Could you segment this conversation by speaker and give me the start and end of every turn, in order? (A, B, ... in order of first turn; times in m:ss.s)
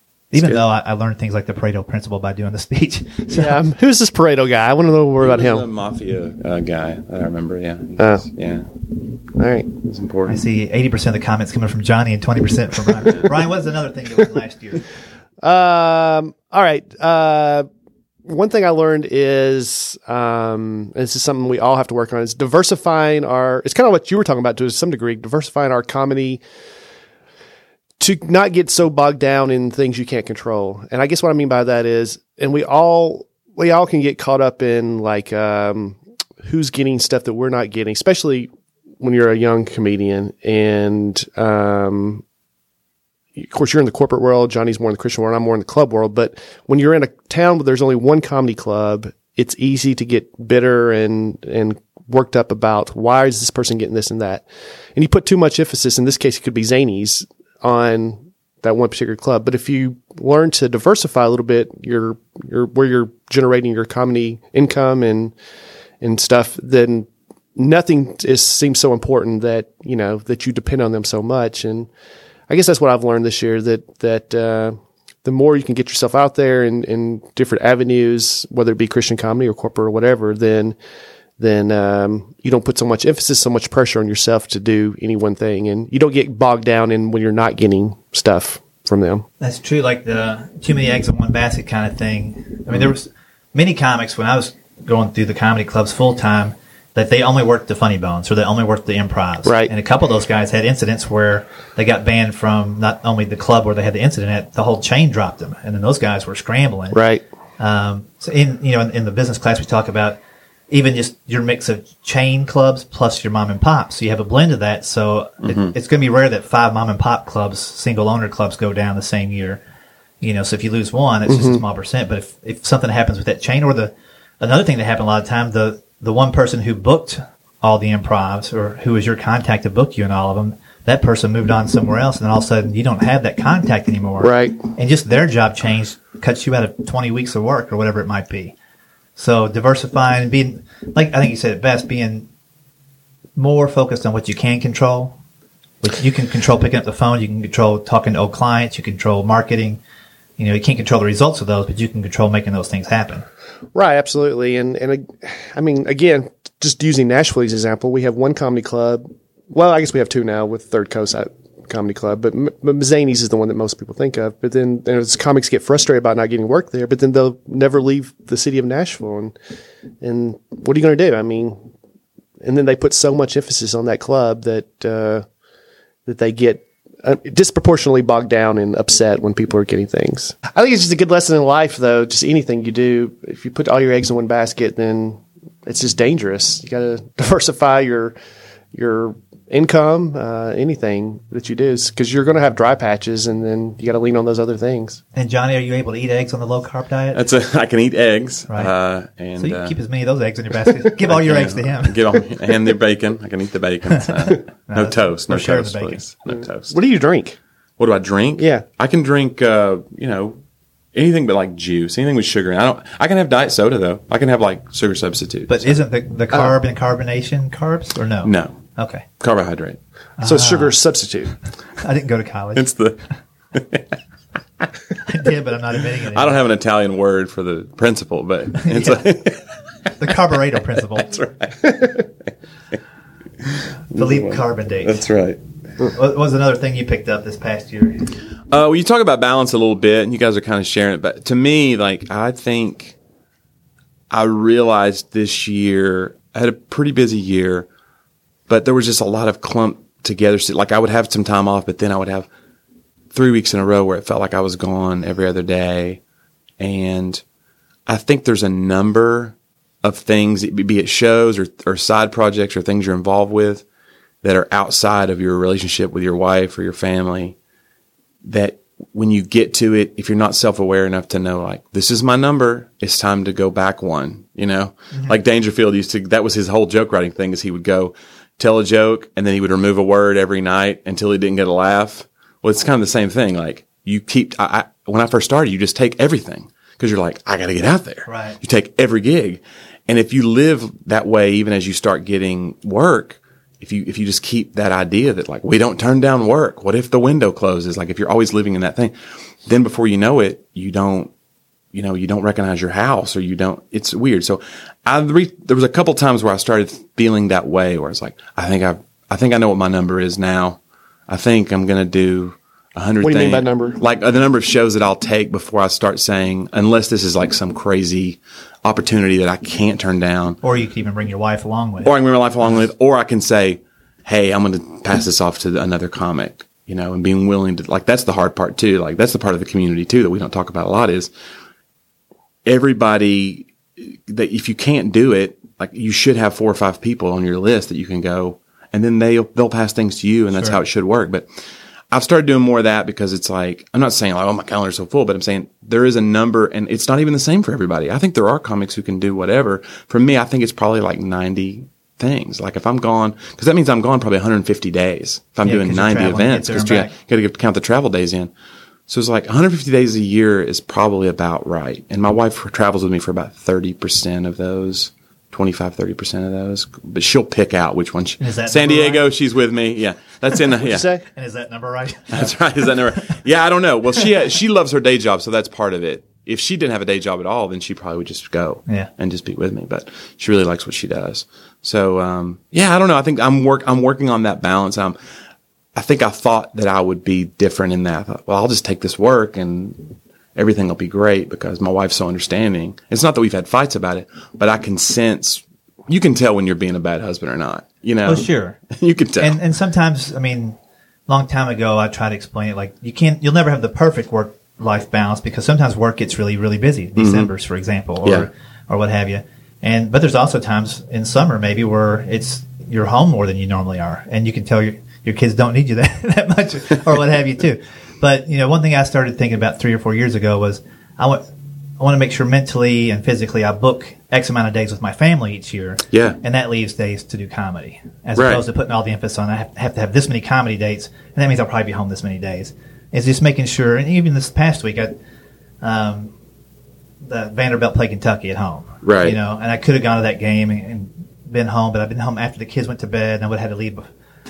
0:00.3-0:03.6 A
0:03.3-0:05.7 B
0:05.2-0:08.7 C
0:08.0-0:08.3 B
0:09.3-0:09.8 B
0:09.8-0:10.4 C
0:10.3-0:14.8 A
0:15.4-0:17.7 B
0:18.2-0:26.4 B
0:28.0-0:38.5 B
0:39.0-0:42.2 B
0:43.4-1:05.4 B
1:06.0-1:11.9 B
1:12.5-1:20.8 B
1:21.4-1:29.2 B
1:29.4-1:47.0 A
1:39.4-1:39.7 B
1:46.9-1:47.2 B
1:47.6-1:50.2 A
1:50.7-1:59.6 A
1:55.4-1:55.7 C
2:00.2-2:18.6 A
2:01.3-2:01.6 B
2:14.2-2:14.6 B
2:19.2-2:22.3 A
2:23.4-2:25.2 A
2:25.8-2:29.8 A
2:30.4-2:33.2 A
2:33.7-2:49.4 B
2:50.0-2:51.7 B
2:52.4-2:55.3 B
2:56.1-3:08.2 B
3:08.7-3:15.0 B
3:15.1-3:17.2 A
3:17.1-3:19.8 C
3:19.4-3:22.2 A
3:21.1-3:26.8 C
3:24.0-3:26.0 A
3:26.3-3:27.4 B
3:27.8-3:30.4 C
3:28.4-3:28.6 B
3:30.9-3:35.8 C
3:35.5-3:39.1 A
3:38.2-3:38.6 C
3:39.2-3:39.8 C
3:40.2-3:40.8 A
3:40.2-3:41.4 B
3:41.8-3:42.7 A
3:42.6-3:43.0 C
3:43.5-3:43.8 C
3:45.0-3:46.4 A
3:46.1-3:49.4 C
3:48.6-3:49.2 A
3:50.0-3:51.1 A
3:51.0-3:52.0 C
3:53.5-3:55.4 C
3:53.9-3:55.0 A
3:55.9-3:58.1 A
3:58.5-4:03.0 C
4:04.1-4:07.7 C
4:08.5-4:12.3 C
4:13.1-4:16.0 C
4:16.6-4:17.2 C
4:17.9-4:23.6 C
4:24.2-4:27.4 C
4:28.2-4:58.9 C
4:48.1-4:48.4 A
4:59.5-5:01.1 C
5:01.7-5:20.4 C
5:13.0-5:13.8 B
5:20.4-5:21.9 A
5:21.8-5:31.1 C
5:32.4-5:41.3 C
5:40.3-5:40.6 A
5:41.9-5:58.3 C
5:55.4-5:56.9 A
5:58.9-6:10.9 C
6:08.2-6:09.1 A
6:10.6-6:11.0 B
6:11.1-6:13.2 A
6:12.1-6:25.0 C
6:25.8-6:39.4 C
6:38.0-6:38.6 A
6:39.2-6:40.6 A
6:41.1-7:01.2 A
6:47.0-6:47.3 C
6:48.0-6:48.3 C
7:01.8-7:14.9 A
7:05.9-7:06.2 C
7:08.2-7:08.4 C
7:15.6-7:16.1 A
7:17.0-7:23.9 A
7:18.8-7:19.2 C